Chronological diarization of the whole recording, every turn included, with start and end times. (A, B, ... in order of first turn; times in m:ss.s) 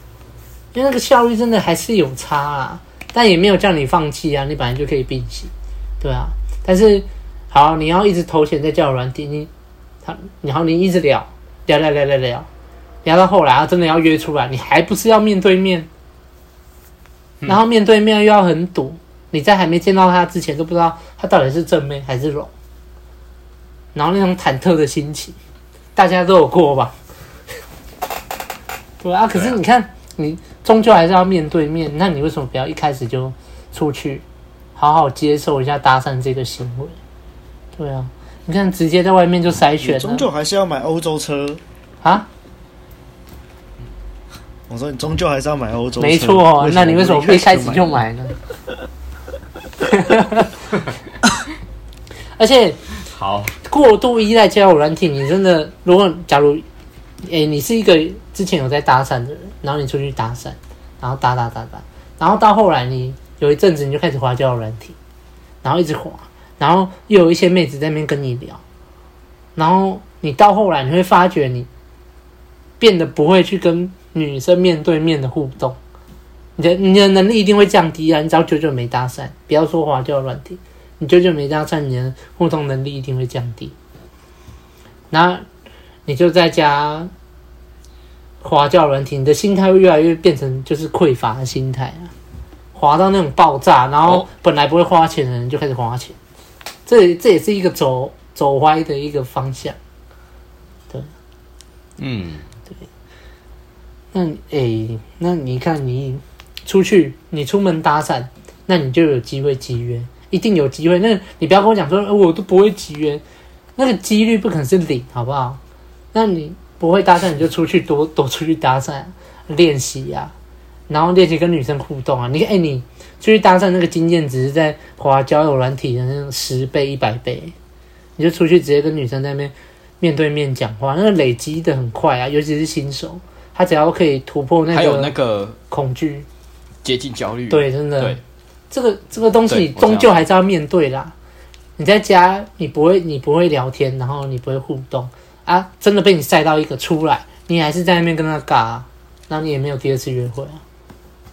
0:00.7-0:09.5 A
0:10.0-0:12.5 A
0:13.0-0:15.9 A
0:17.5-0:22.5 A
0:23.9-0:25.4 A
0:26.0-0:27.0 A
0:29.0-0:34.2 A
0:34.8-0:37.0 A
0:37.8-0:40.3 A
0:39.8-0:41.6 B
0:42.0-0:42.3 A
0:44.7-0:48.0 B
0:46.0-0:48.4 A
0:49.9-0:50.5 A
0:52.4-0:52.8 A
0:53.1-0:53.5 C
0:53.6-0:56.6 A
0:57.3-1:05.0 A
1:05.6-1:08.6 A
1:09.6-1:11.7 A
1:12.8-1:15.8 A
1:16.6-1:23.8 A
1:25.1-1:25.4 A
1:26.1-1:27.1 A
1:28.4-1:32.1 A
1:32.7-1:36.2 A
1:36.9-1:39.8 A
1:42.0-1:42.5 C
1:44.1-1:53.2 A
1:53.8-1:55.6 A
1:56.1-2:00.3 A
2:00.9-2:07.5 A
2:08.2-2:15.1 A
2:14.7-2:15.6 C
2:15.7-2:16.3 A
2:16.8-2:18.2 C
2:17.5-2:18.2 A
2:18.7-2:21.1 A
2:19.5-2:20.2 C
2:21.8-2:30.6 A